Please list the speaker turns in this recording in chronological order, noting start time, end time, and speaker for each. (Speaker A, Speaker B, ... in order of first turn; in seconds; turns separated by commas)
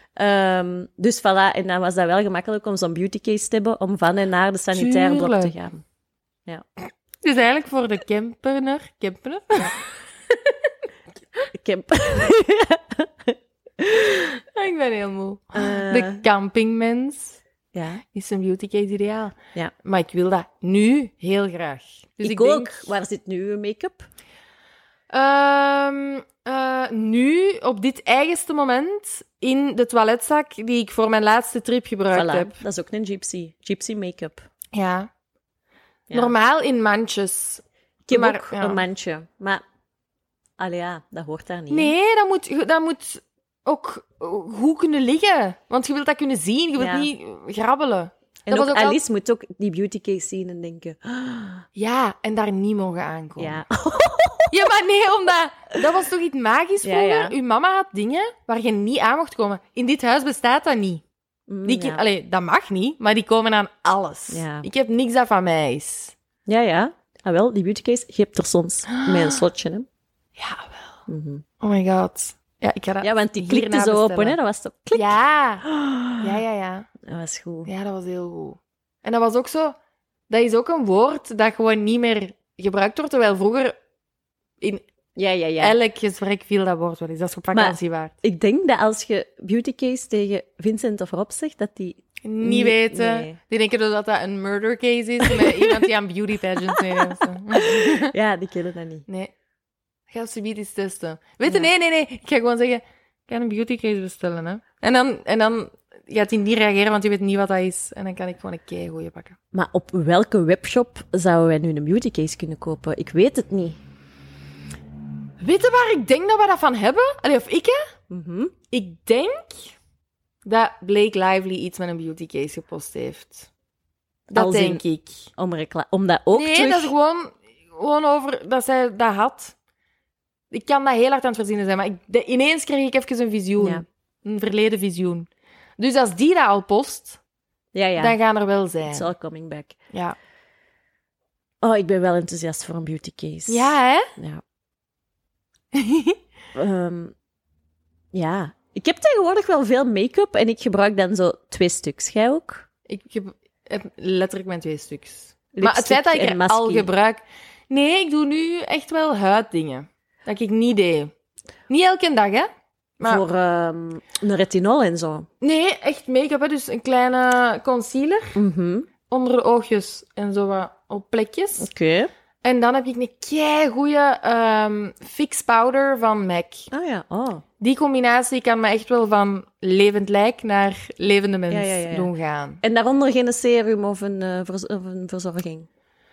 Speaker A: 0.2-5.8, Speaker B: 4.7-5.5, Speaker B: 7.2-9.8, Speaker A: 11.5-14.3, Speaker B: 14.5-17.4, Speaker A: 15.5-16.2, Speaker A: 17.7-18.0, Speaker B: 18.1-22.9, Speaker A: 22.2-24.1, Speaker B: 25.1-32.6, Speaker A: 32.1-34.5, Speaker B: 34.7-35.1, Speaker A: 36.1-36.3, Speaker B: 36.1-38.8, Speaker A: 38.1-39.6, Speaker A: 40.6-41.9, Speaker B: 41.7-49.0, Speaker A: 46.8-47.1, Speaker A: 48.5-51.6, Speaker B: 51.8-53.6, Speaker A: 53.4-54.6, Speaker B: 54.5-61.0, Speaker A: 56.8-57.3, Speaker A: 61.5-62.0, Speaker B: 61.6-66.2, Speaker A: 64.3-64.7, Speaker A: 66.5-69.9, Speaker B: 68.9-69.4, Speaker B: 70.4-71.0, Speaker A: 71.1-71.4, Speaker B: 71.6-74.4, Speaker A: 73.0-76.4, Speaker B: 74.9-75.7, Speaker B: 76.2-76.9, Speaker A: 77.0-77.7, Speaker B: 77.7-79.8, Speaker B: 80.3-83.8, Speaker A: 85.2-85.8, Speaker B: 85.6-88.2, Speaker A: 87.5-93.4, Speaker B: 92.2-98.1, Speaker A: 95.2-95.8, Speaker A: 96.7-99.1, Speaker B: 99.1-99.3, Speaker B: 100.1-109.4, Speaker A: 109.5-113.8, Speaker B: 115.4-117.8, Speaker A: 118.1-118.5, Speaker B: 118.7-119.8, Speaker B: 120.5-123.5, Speaker A: 124.3-124.8, Speaker B: 124.3-125.3, Speaker A: 125.4-126.9, Speaker B: 126.3-129.6, Speaker B: 130.5-137.2, Speaker A: 137.7-138.2, Speaker B: 138.0-139.1, Speaker A: 138.9-139.8, Speaker A: 141.6-144.4, Speaker B: 143.5-144.1, Speaker B: 145.7-146.2, Speaker A: 146.6-147.1, Speaker A: 148.1-152.7, Speaker B: 152.9-161.1, Speaker A: 155.5-156.9, Speaker B: 161.7-162.5, Speaker A: 163.0-165.3, Speaker B: 165.4-168.4, Speaker A: 168.3-168.9, Speaker B: 169.1-171.7, Speaker A: 171.6-172.1, Speaker B: 172.4-176.7, Speaker A: 176.7-177.4, Speaker B: 177.6-182.6, Speaker A: 181.5-182.1, Speaker A: 182.6-185.7